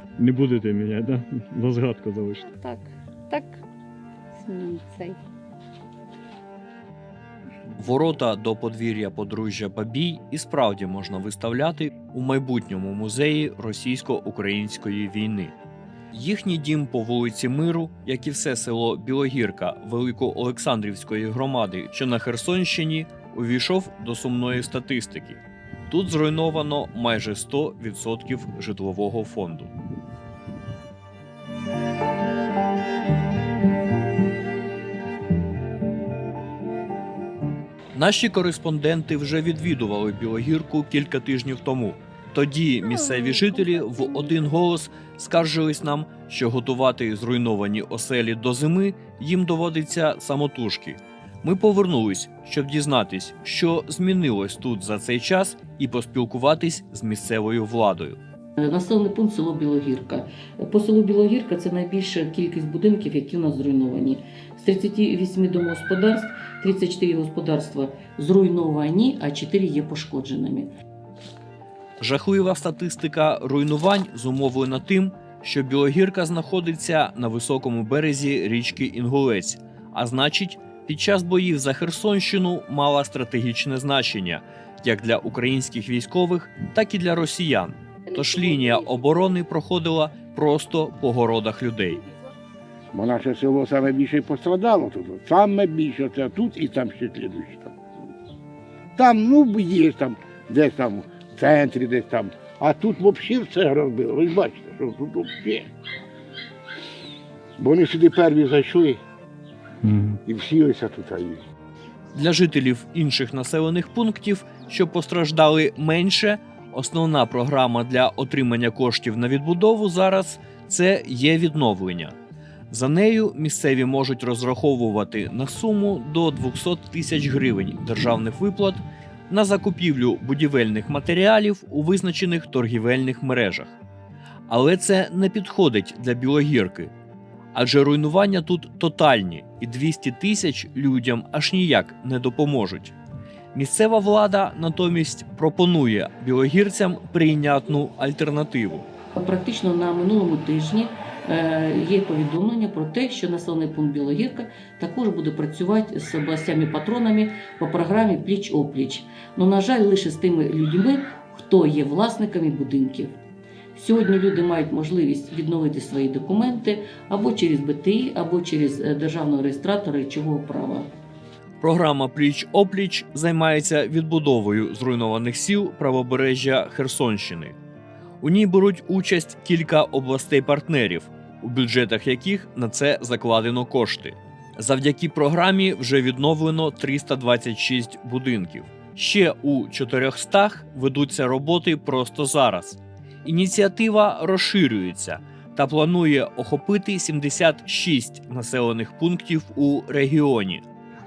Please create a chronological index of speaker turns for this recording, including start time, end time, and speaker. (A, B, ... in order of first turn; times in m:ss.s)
0:00.2-0:02.5 A
0:02.5-0:03.6 B
0:04.3-0:05.2 B
0:07.8-0:15.5 C
0:16.1-0:29.7 C
0:37.9-0:58.2 C
0:58.6-1:10.7 D
1:12.0-1:32.0 C
1:32.9-1:37.8 E
1:39.0-1:45.7 E
1:47.6-1:49.0 E
1:49.8-1:50.2 A
1:50.2-1:51.4 E
1:52.1-2:02.2 C
2:02.7-2:13.8 C
2:14.5-2:16.9 C
2:17.5-2:22.9 C
2:23.5-2:28.9 C
2:29.2-2:43.2 D
2:43.7-2:50.9 D
2:51.6-2:57.5 C
2:58.2-3:20.6 C